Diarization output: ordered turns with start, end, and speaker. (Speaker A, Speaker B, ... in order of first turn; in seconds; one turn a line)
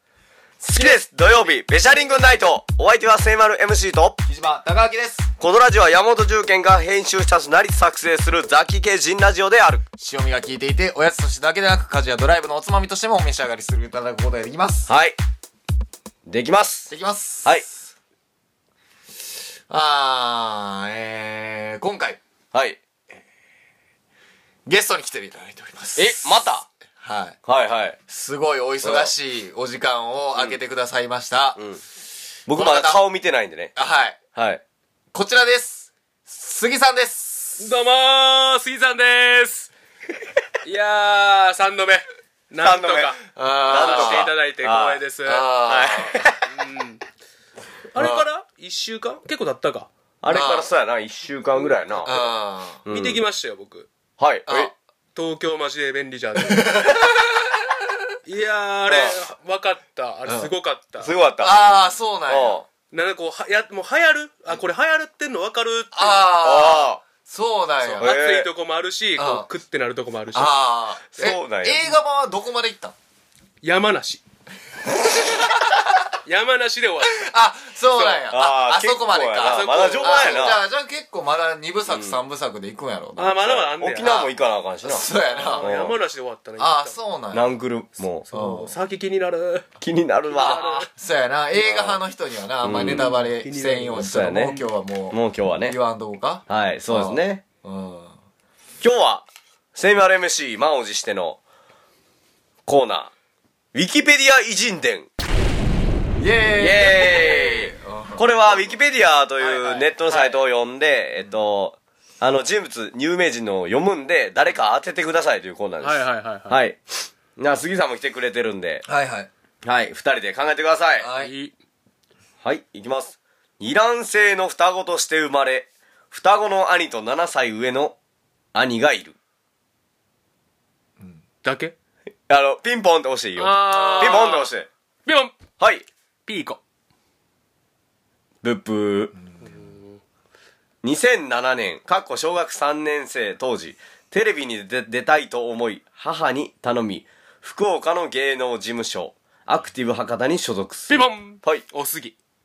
Speaker A: 0.6-1.0
Speaker B: 0.6-4.2
Speaker A: 4.2-5.3
Speaker B: 5.4-9.8
Speaker A: 10.0-14.9
Speaker B: 14.9-15.2
Speaker B: 16.2-16.9
Speaker A: 16.9-17.9
Speaker A: 19.7-22.2
Speaker B: 22.5-22.8
Speaker A: 24.6-27.4
Speaker B: 25.9-26.7
Speaker B: 27.4-28.0
Speaker A: 28.1-31.6
Speaker B: 28.8-29.1
Speaker B: 32.5-33.7
Speaker A: 32.5-33.1
Speaker A: 33.7-34.2
Speaker B: 34.3-34.6
Speaker A: 35.1-37.7
Speaker C: 37.6-39.7
Speaker C: 40.6-45.6
Speaker B: 42.6-43.1
Speaker A: 43.3-44.3
Speaker B: 43.7-45.0
Speaker A: 45.2-46.2
Speaker B: 45.6-46.5
Speaker C: 46.5-47.0
Speaker C: 47.9-49.9
Speaker A: 48.0-48.2
Speaker B: 50.2-52.2
Speaker A: 50.3-50.7
Speaker C: 51.6-52.1
Speaker A: 52.0-52.8
Speaker B: 52.9-53.2
Speaker C: 52.9-53.9
Speaker B: 54.2-54.7
Speaker A: 54.5-54.7
Speaker C: 55.1-57.0
Speaker A: 56.4-57.6
Speaker C: 58.2-61.1
Speaker B: 58.9-59.2
Speaker A: 60.2-60.5
Speaker B: 61.0-62.6
Speaker A: 61.4-62.6
Speaker C: 62.9-66.4
Speaker A: 65.9-68.2
Speaker B: 66.4-67.0
Speaker B: 67.8-68.5
Speaker C: 68.0-70.6
Speaker A: 69.2-69.5
Speaker A: 70.3-72.9
Speaker B: 71.1-71.8
Speaker C: 73.6-74.2
Speaker A: 75.0-75.9
Speaker C: 76.2-77.3
Speaker A: 77.0-83.4
Speaker C: 77.9-78.3
Speaker B: 78.3-80.6
Speaker C: 79.4-80.5
Speaker B: 81.9-82.2
Speaker C: 83.2-84.2
Speaker B: 83.4-85.0
Speaker A: 84.0-85.7
Speaker C: 85.1-87.0
Speaker B: 85.6-86.0
Speaker A: 86.6-87.6
Speaker B: 87.3-88.2
Speaker C: 88.2-89.7
Speaker A: 88.3-88.8
Speaker B: 89.8-90.8
Speaker C: 90.3-90.9
Speaker A: 90.9-98.2
Speaker B: 91.6-92.0
Speaker B: 92.6-93.1
Speaker C: 92.7-94.4
Speaker B: 94.0-95.8
Speaker B: 96.5-97.4
Speaker B: 98.8-101.4
Speaker B: 102.7-103.1
Speaker B: 103.7-105.1
Speaker A: 106.2-108.7
Speaker B: 106.6-116.8
Speaker C: 109.4-110.4
Speaker C: 115.8-116.6
Speaker B: 117.3-118.8
Speaker A: 118.8-119.3
Speaker B: 119.6-121.1
Speaker A: 121.0-121.3
Speaker C: 121.1-121.5
Speaker B: 122.4-128.0
Speaker B: 128.5-129.2
Speaker C: 131.4-131.7
Speaker B: 132.3-134.7
Speaker C: 133.3-134.5
Speaker A: 133.7-134.3
Speaker C: 135.1-135.3
Speaker B: 135.6-135.8
Speaker C: 136.3-136.6
Speaker B: 138.4-139.1
Speaker A: 139.1-139.7
Speaker C: 139.4-140.0
Speaker B: 140.8-151.6
Speaker C: 150.9-152.2